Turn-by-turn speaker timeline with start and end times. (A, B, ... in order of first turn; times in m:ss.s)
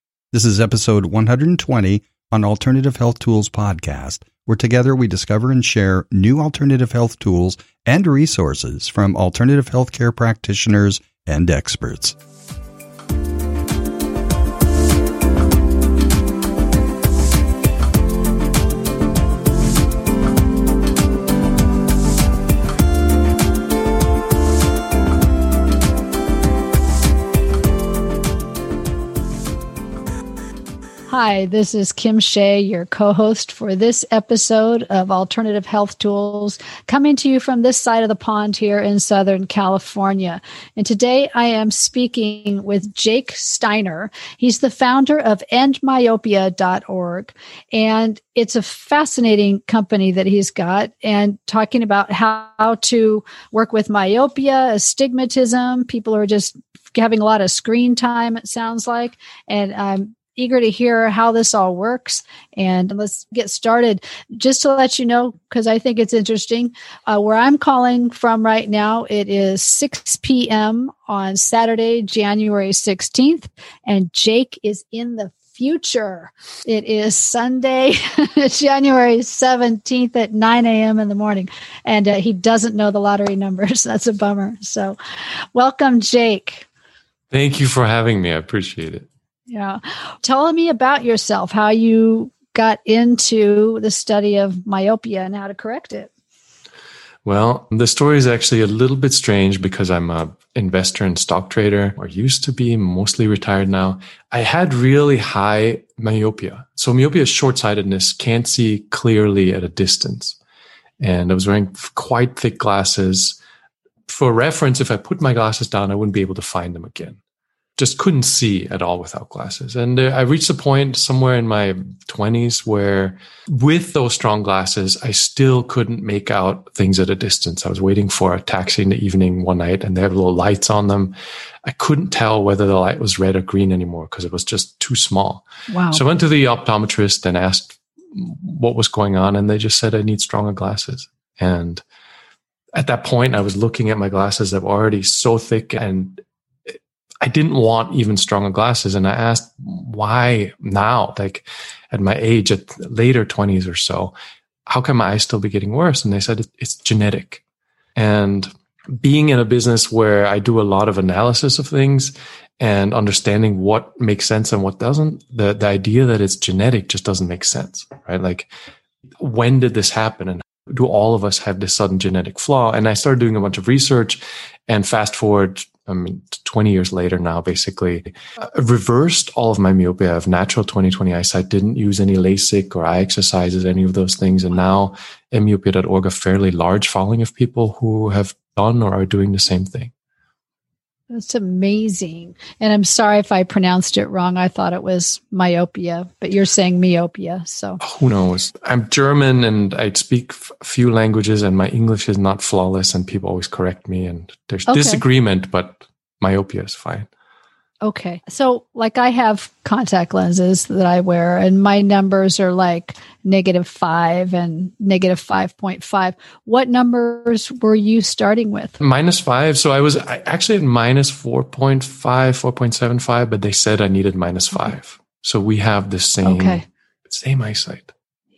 0:00.3-0:12.2 A
0:31.1-1:25.0 B
1:25.5-1:26.7 B
1:27.3-1:29.1 C
1:29.5-1:36.1 B
1:37.2-1:50.4 C
1:51.0-1:53.4 C
1:54.1-1:57.2 C
1:57.8-2:21.8 C
2:15.7-2:16.0 B
2:22.7-2:34.1 C
2:34.7-2:37.4 C
2:38.0-2:48.5 C
2:49.2-3:09.9 C
3:11.1-3:17.8 B
3:17.8-3:27.1 C
3:24.7-3:25.0 B
3:27.8-3:38.8 B
3:38.8-3:47.9 C
3:46.2-3:46.6 B